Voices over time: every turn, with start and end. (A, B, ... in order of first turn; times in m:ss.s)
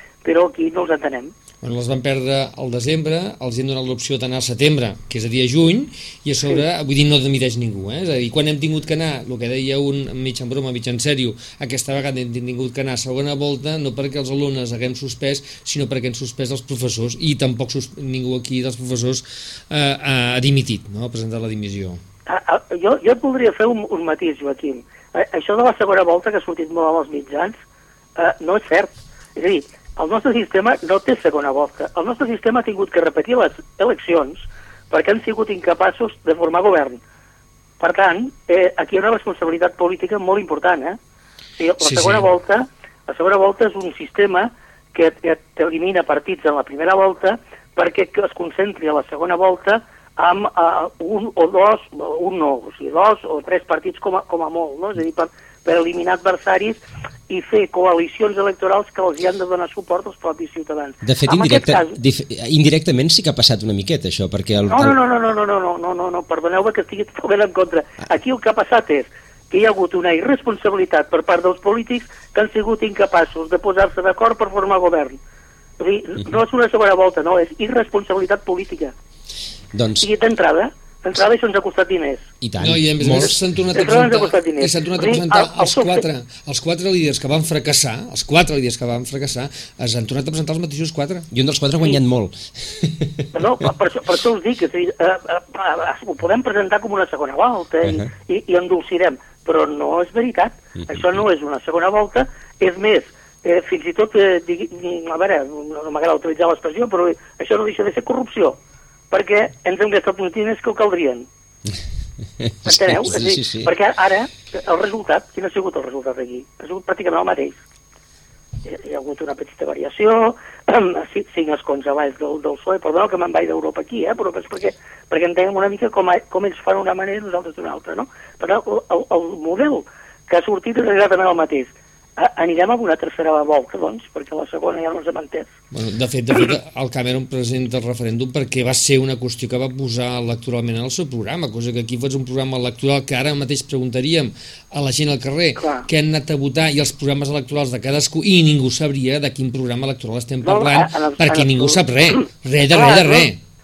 0:00.2-0:01.3 A
0:01.6-0:22.0 B
0:22.3-0:27.6 A
0:28.2-0:37.0 A
0:37.8-0:41.0 A
0:41.6-1:02.0 A
0:41.8-0:42.3 B
1:01.0-1:05.0 C
1:04.7-1:15.2 A
1:15.8-1:18.9 A
1:19.7-1:20.1 C
1:20.0-1:22.3 A
1:22.4-1:23.4 C
1:22.6-1:31.3 B
1:23.2-1:26.0 A
1:31.3-1:33.3 C
1:33.3-1:48.6 A
1:49.1-1:51.3 A
1:52.4-1:53.7 C
1:52.6-1:57.6 A
1:58.6-2:15.5 A
2:15.7-2:33.4 B
2:25.6-2:25.9 A
2:30.4-2:31.8 A
2:32.7-2:33.3 A